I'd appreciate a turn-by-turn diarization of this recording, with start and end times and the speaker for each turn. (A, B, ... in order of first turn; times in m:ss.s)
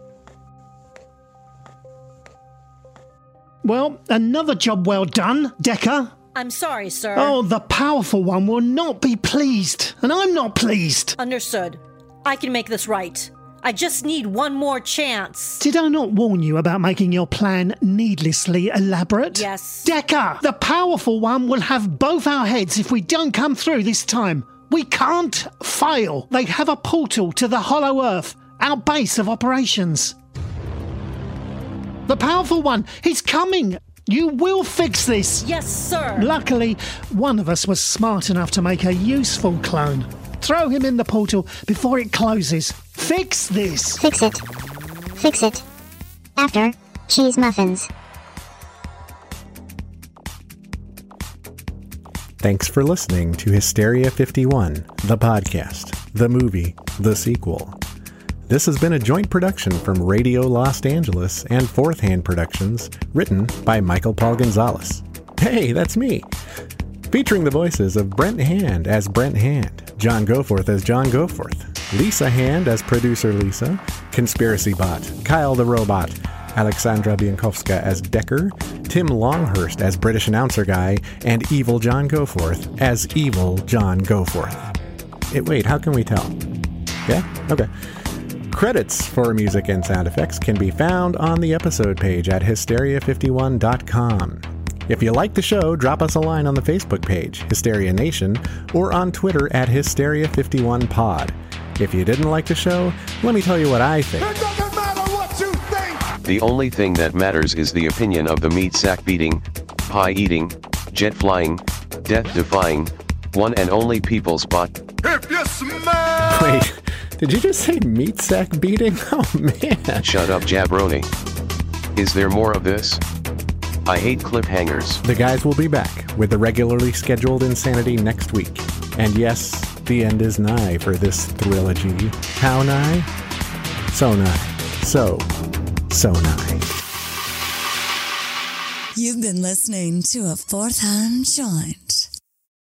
0:03.6-0:06.1 A
0:06.3-0:07.4 B
0:07.1-0:11.2 A
0:11.2-0:15.6 B
0:15.6-0:30.1 A
0:19.3-0:19.9 B
0:32.1-0:35.5 A
0:35.4-0:36.3 B
0:36.2-0:44.0 A
0:44.0-0:44.4 C
0:45.2-0:45.6 C
0:46.4-0:47.9 C
0:52.4-0:57.8 D
0:58.5-1:06.3 D
1:07.1-1:24.7 D
1:25.3-1:26.4 D
1:27.0-1:27.7 D
1:28.5-1:44.4 D
1:44.2-1:46.1 E
1:46.2-1:54.7 F
1:55.1-1:56.2 E
1:56.2-2:00.2 D
2:00.0-2:01.1 F
2:02.0-2:03.0 F
2:03.8-2:05.0 F
2:05.0-2:13.1 D
2:13.9-2:15.3 D
2:15.9-2:16.7 D
2:18.9-2:22.1 G